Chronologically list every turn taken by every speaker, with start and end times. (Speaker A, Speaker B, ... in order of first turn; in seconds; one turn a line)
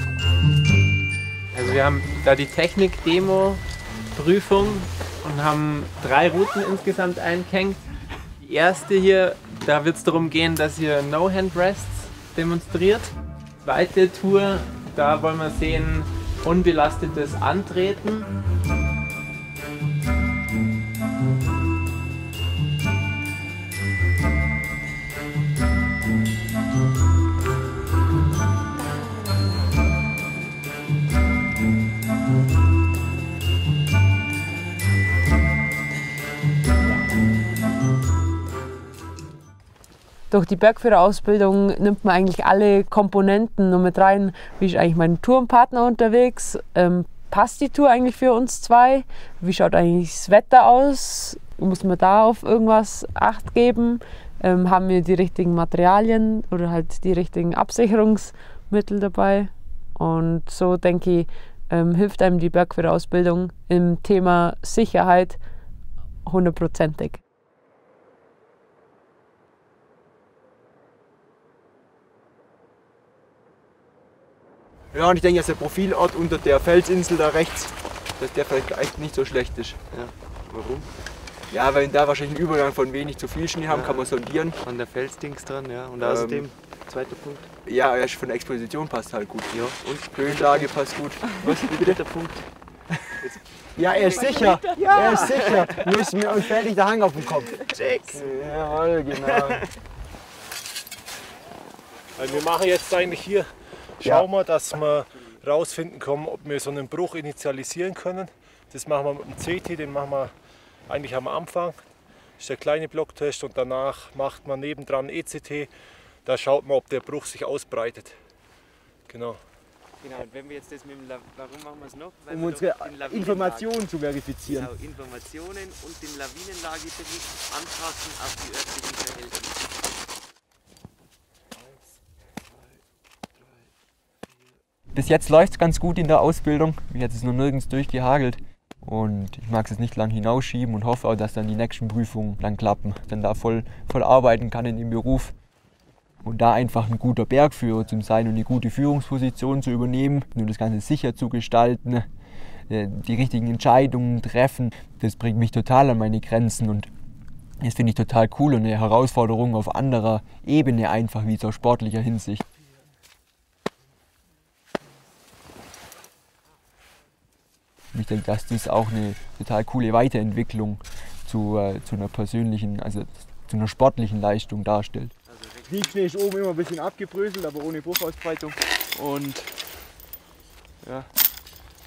Speaker A: 1.5-3.6
Speaker A: 4.1-7.8
Speaker A: 8.4-13.1
Speaker A: 13.6-18.3
Speaker B: 40.3-65.4
Speaker B: 66.2-67.2
Speaker C: 74.9-79.8
Speaker D: 79.9-80.9
Speaker C: 81.5-84.6
Speaker D: 83.7-84.1
Speaker D: 84.6-87.5
Speaker C: 86.0-86.5
Speaker C: 87.6-92.0
Speaker D: 89.5-90.7
Speaker D: 91.7-92.5
Speaker C: 93.2-99.7
Speaker D: 93.9-95.9
Speaker D: 97.7-98.4
Speaker D: 99.2-99.6
Speaker E: 102.2-103.4
Speaker E: 104.0-110.3
Speaker E: 110.9-111.7
Speaker E: 112.4-115.7
Speaker E: 116.2-118.1
Speaker E: 119.1-119.4
Speaker D: 120.0-129.6
Speaker C: 122.3-124.7
Speaker C: 134.9-145.3
Speaker C: 146.2-152.1
Speaker C: 152.7-156.9
Speaker C: 157.6-162.4
Speaker C: 167.9-175.1
Speaker D: 175.2-176.0
Speaker C: 175.7-179.6
Speaker C: 180.8-181.1